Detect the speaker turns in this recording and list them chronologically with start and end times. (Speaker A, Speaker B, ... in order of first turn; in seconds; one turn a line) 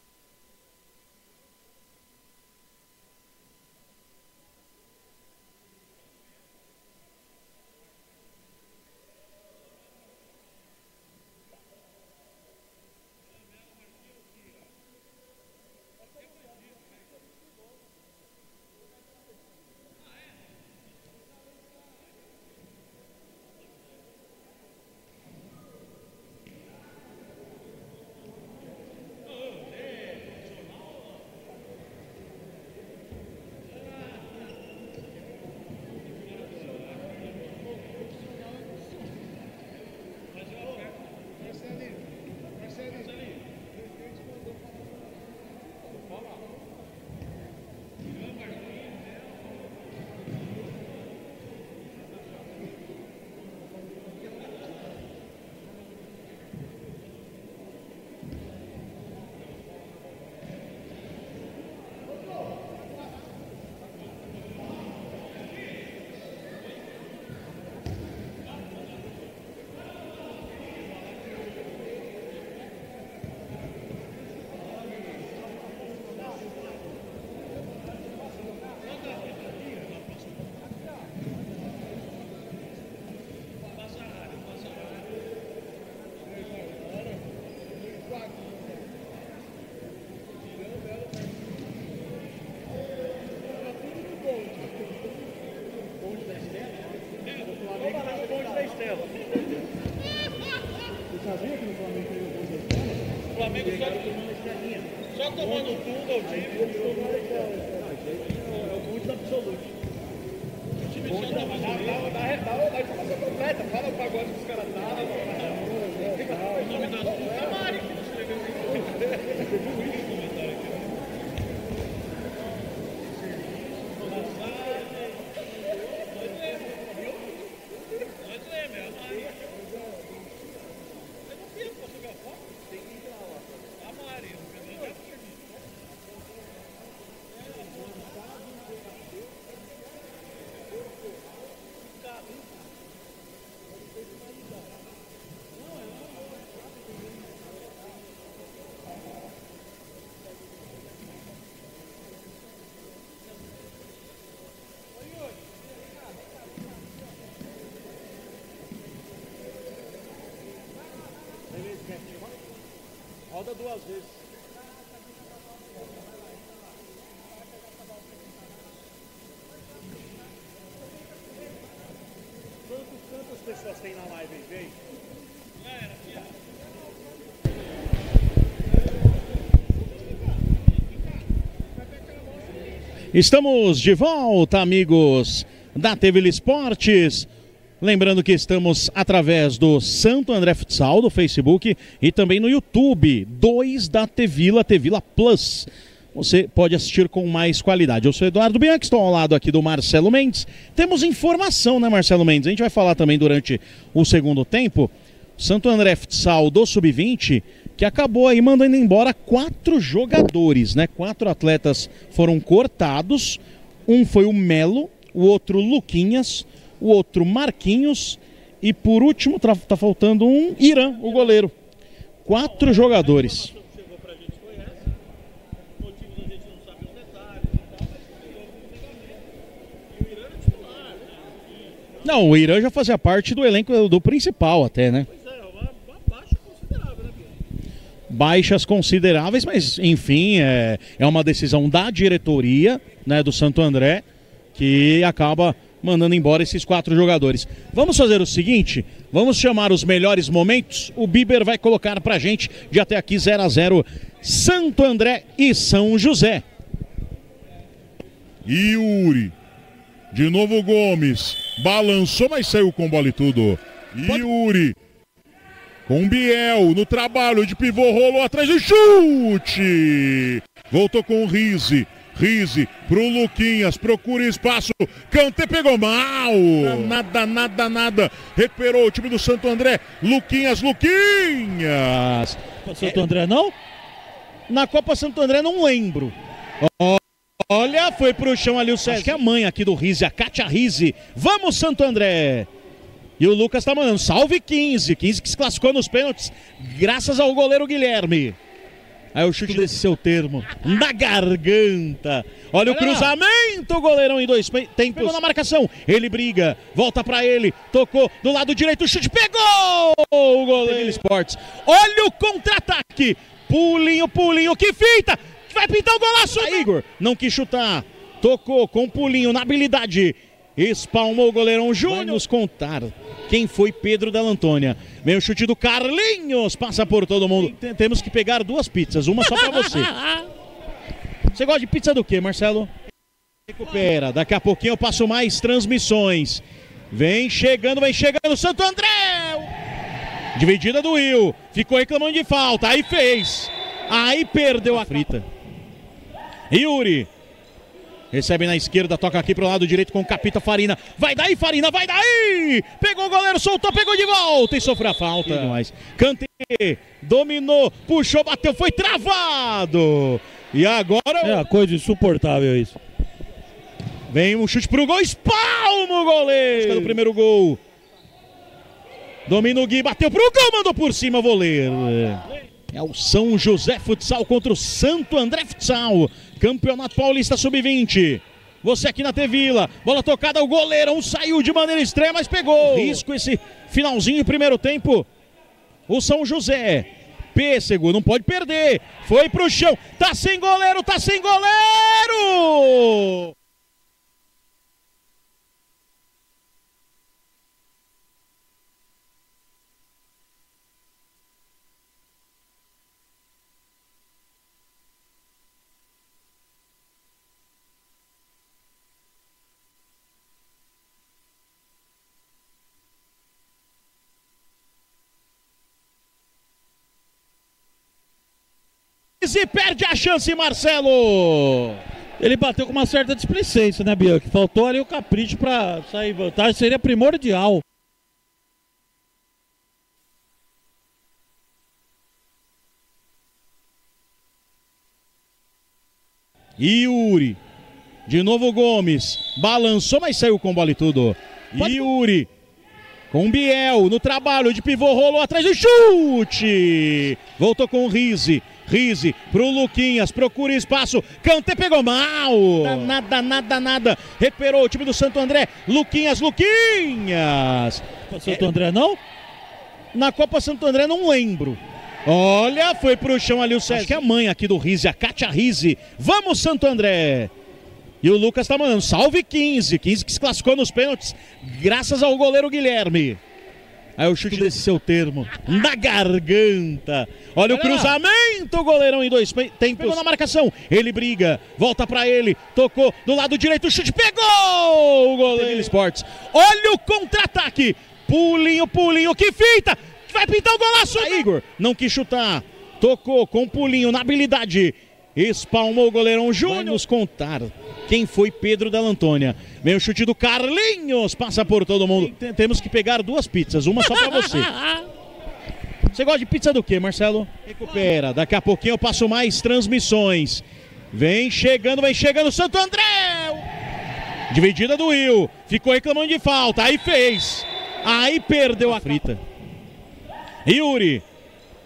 Speaker A: 103.4-104.1
Speaker A: 105.1-107.0
Speaker A: 111.0-112.1
Speaker A: 116.6-117.2
Speaker B: 183.1-187.3
Speaker B: 187.8-221.5
Speaker B: 222.2-223.5
Speaker A: 223.6-224.5
Speaker A: 226.1-227.2
Speaker B: 232.0-235.1
Speaker A: 235.2-236.8
Speaker B: 238.1-244.0
Speaker B: 244.6-256.4
Speaker C: 258.4-259.3
Speaker C: 260.1-264.8
Speaker C: 265.9-282.1
Speaker B: 282.0-283.0
Speaker A: 282.6-283.6
Speaker B: 284.5-292.5
Speaker B: 293.2-298.4
Speaker B: 299.1-330.0
Speaker A: 302.7-303.1
Speaker B: 331.3-332.7
Speaker B: 333.5-339.5
Speaker B: 340.4-345.3
Speaker B: 346.5-347.1
Speaker B: 348.1-361.4
Speaker A: 361.2-362.8
Speaker B: 364.1-367.6
Speaker B: 369.3-385.1
Speaker B: 385.9-393.4
Speaker B: 419.2-421.8
Speaker A: 422.2-427.6
Speaker B: 436.6-437.4
Speaker B: 438.1-442.3
Speaker B: 443.1-458.4
Speaker A: 458.1-459.0
Speaker B: 459.9-467.3
Speaker A: 463.7-464.0
Speaker B: 468.0-473.2
Speaker B: 474.0-504.5
Speaker A: 477.5-478.0
Speaker B: 505.9-513.5
Speaker B: 514.3-519.2
Speaker B: 520.5-521.0